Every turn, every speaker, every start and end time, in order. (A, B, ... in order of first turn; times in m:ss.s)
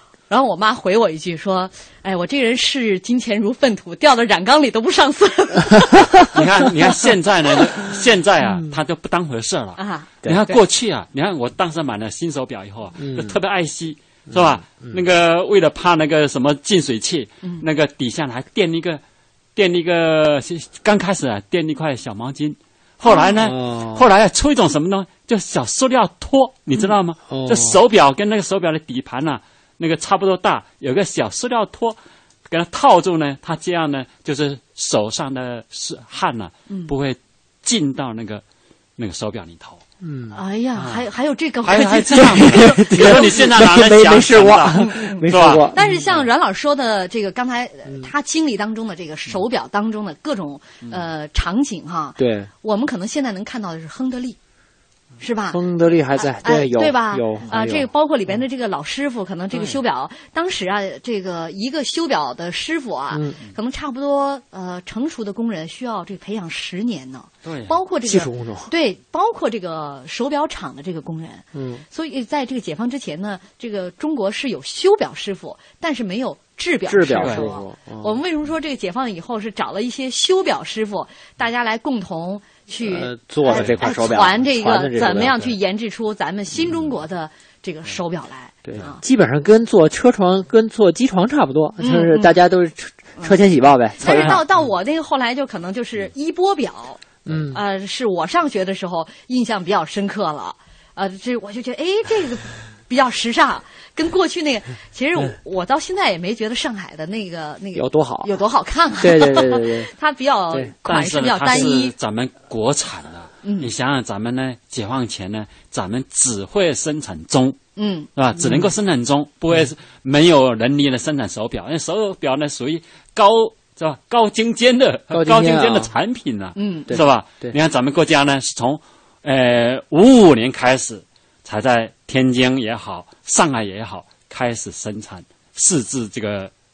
0:00.3-0:06.1 A
0:06.3-0:19.0 B
0:09.8-0:10.6 A
0:13.0-0:13.4 C
0:14.3-0:15.0 C
0:19.6-0:32.0 B
0:23.1-0:23.4 A
0:23.4-0:24.0 C
0:27.3-0:27.8 C
0:32.5-0:38.4 B
0:39.0-0:39.8 B
0:40.0-0:40.4 C
0:40.3-0:43.4 A
0:40.8-0:41.0 B
0:41.6-0:45.7 B
0:42.2-0:46.2 C
0:44.9-0:45.2 A
0:45.7-0:54.4 A
0:47.9-0:48.1 C
0:52.2-0:52.5 C
0:55.2-0:55.6 A
0:55.5-0:57.9 C
0:56.2-1:29.0 A
1:03.1-1:03.4 C
1:07.4-1:07.8 B
1:08.0-1:08.7 C
1:11.5-1:11.8 C
1:16.9-1:18.2 C
1:17.1-1:17.5 B
1:22.8-1:25.5 C
1:23.5-1:23.8 B
1:28.6-1:34.5 C
1:31.8-1:32.4 A
1:34.0-1:51.9 A
1:34.1-1:34.4 B
1:37.2-1:37.6 C
1:47.7-1:48.3 C
1:49.0-1:49.9 C
1:50.9-1:57.6 B
1:53.4-1:53.7 A
1:57.8-1:58.1 A
1:58.2-2:16.5 B
2:05.1-2:05.9 C
2:06.6-2:07.0 A
2:06.9-2:07.6 C